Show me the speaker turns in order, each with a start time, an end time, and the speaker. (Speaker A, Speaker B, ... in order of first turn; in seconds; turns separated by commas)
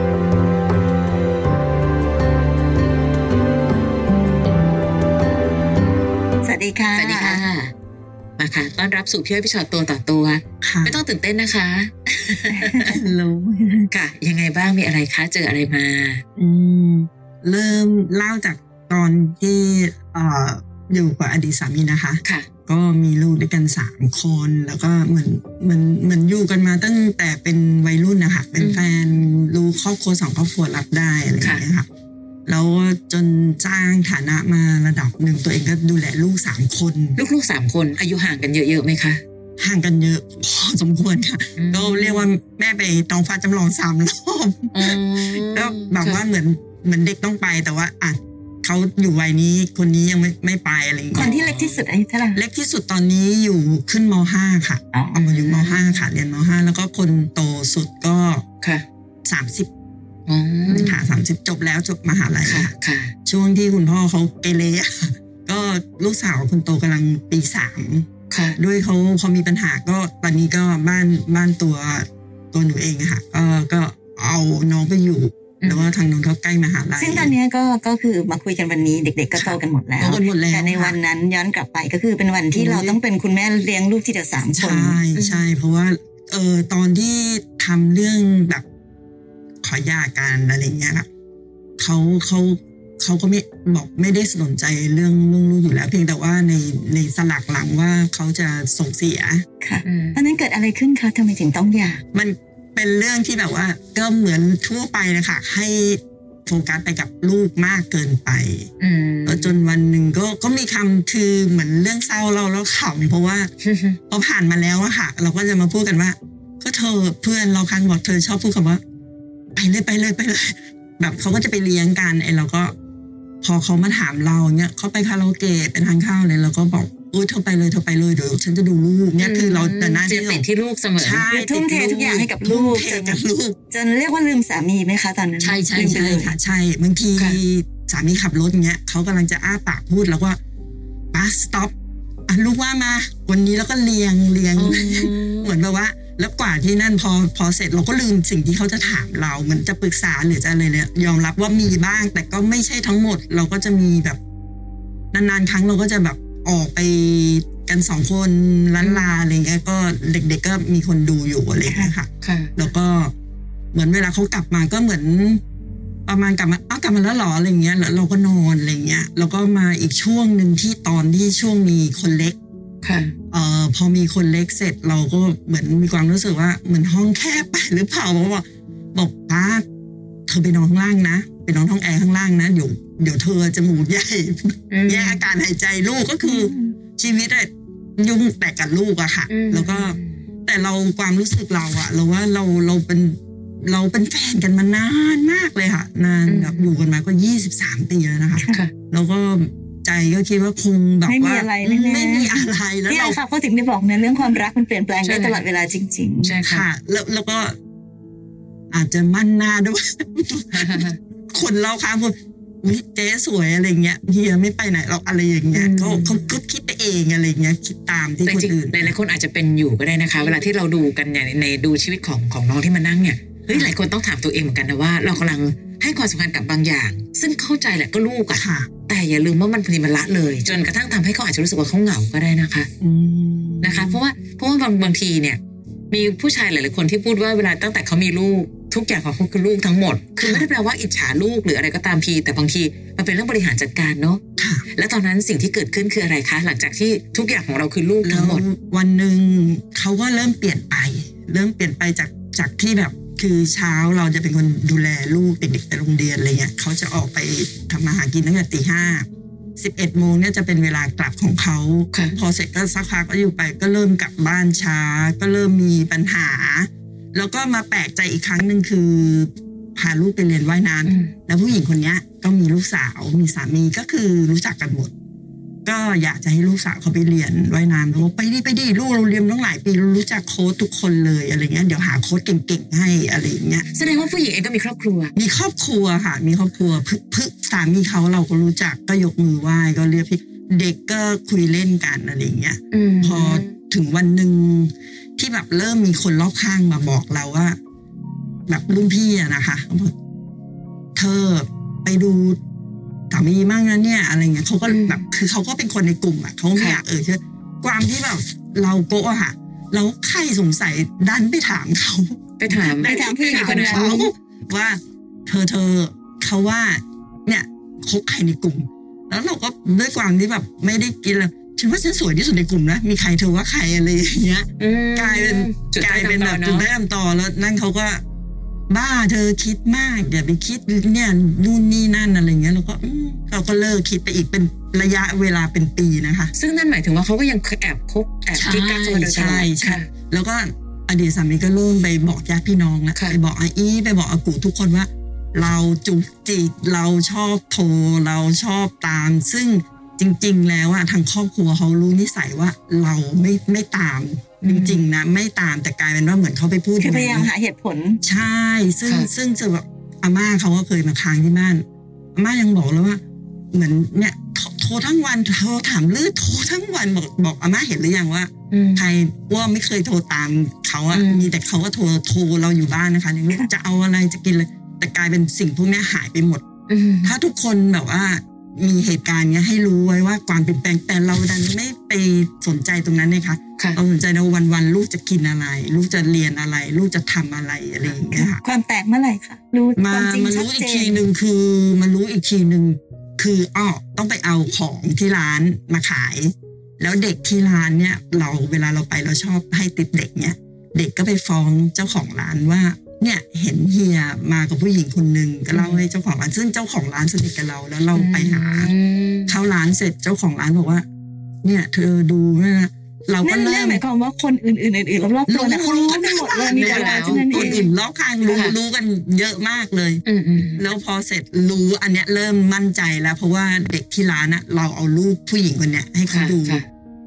Speaker A: 6.4-7.4, Speaker B: 7.0-7.7, Speaker B: 8.4-12.9, Speaker C: 10.6-11.0, Speaker A: 12.5-12.9, Speaker C: 12.8-13.9, Speaker B: 13.9-16.2, Speaker C: 16.4-31.9, Speaker B: 28.6-28.9, Speaker B: 31.4-31.7, Speaker C: 32.5-37.2, Speaker B: 37.2-39.2, Speaker C: 39.6-51.4, Speaker B: 41.6-42.2, Speaker B: 44.7-46.2, Speaker A: 51.1-52.4, Speaker B: 51.2-51.8, Speaker C: 52.4-58.4, Speaker A: 54.9-55.2, Speaker B: 55.1-56.0, Speaker C: 59.2-59.7, Speaker B: 60.3-61.0, Speaker C: 60.7-62.7, Speaker B: 62.4-63.1, Speaker C: 63.2-77.3, Speaker B: 68.3-68.6, Speaker B: 75.6-75.9, Speaker A: 77.0-85.0, Speaker C: 79.3-81.0, Speaker C: 82.5-83.0, Speaker C: 84.4-88.6, Speaker B: 85.2-85.5, Speaker C: 89.6-91.1, Speaker C: 91.8-99.4, Speaker A: 99.6-102.0, Speaker B: 99.8-100.2, Speaker C: 102.1-108.7, Speaker B: 108.8-109.5, Speaker C: 109.2-113.5, Speaker B: 113.6-114.0, Speaker C: 114.1-118.8, Speaker C: 119.5-122.7, Speaker C: 123.4-130.4, Speaker B: 129.2-131.3, Speaker C: 131.0-133.6, Speaker A: 131.3-133.2, Speaker A: 133.7-136.3, Speaker C: 135.4-140.4, Speaker B: 135.7-136.2, Speaker B: 137.2-137.4, Speaker C: 141.1-141.7, Speaker C: 142.3-154.2, Speaker B: 144.6-145.6, Speaker C: 155.1-163.1, Speaker B: 158.8-159.1, Speaker A: 161.7-161.9, Speaker B: 162.2-162.5, Speaker C: 163.7-165.4, Speaker C: 166.1-172.4, Speaker B: 172.8-173.1, Speaker C: 173.3-179.6, Speaker C: 180.3-203.2, Speaker B: 184.7-185.2, Speaker A: 186.2-186.8, Speaker B: 189.3-190.2, Speaker B: 196.3-196.7, Speaker B: 198.4-198.7, Speaker A: 201.1-206.4, Speaker B: 205.0-205.4, Speaker B: 206.2-206.7, Speaker C: 206.4-207.5, Speaker C: 208.7-218.9, Speaker B: 210.5-211.0, Speaker B: 215.5-216.3, Speaker B: 218.2-232.7, Speaker C: 223.5-223.8, Speaker C: 228.3-228.7, Speaker C: 232.8-234.0, Speaker B: 233.6-235.4, Speaker B: 235.9-244.2, Speaker C: 240.2-240.5, Speaker C: 244.4-244.7, Speaker B: 244.7-248.4, Speaker C: 248.0-259.1, Speaker C: 259.6-274.9, Speaker B: 270.9-271.1, Speaker C: 275.6-283.7, Speaker B: 283.7-285.1, Speaker C: 285.1-297.6, Speaker B: 292.7-293.5, Speaker C: 298.5-299.9, Speaker C: 300.9-302.4, Speaker C: 303.1-328.0, Speaker B: 304.7-305.0, Speaker B: 306.6-306.8, Speaker B: 312.4-314.1, Speaker A: 312.8-314.1, Speaker B: 324.6-326.7, Speaker C: 328.7-336.3, Speaker B: 336.3-339.9, Speaker C: 338.3-357.3, Speaker B: 354.4-354.9, Speaker A: 356.8-358.0, Speaker C: 358.0-361.6, Speaker C: 362.1-363.0, Speaker C: 363.5-376.4, Speaker B: 368.5-368.9, Speaker B: 370.9-371.3, Speaker B: 376.7-377.1, Speaker C: 377.0-388.4, Speaker A: 388.1-391.0, Speaker C: 389.8-408.7, Speaker B: 405.5-405.8, Speaker B: 407.9-409.4, Speaker C: 409.2-410.8, Speaker C: 411.4-413.8, Speaker A: 413.2-417.7, Speaker C: 415.3-426.6, Speaker B: 416.5-417.6, Speaker B: 418.3-418.6, Speaker B: 420.1-420.6, Speaker B: 426.1-426.6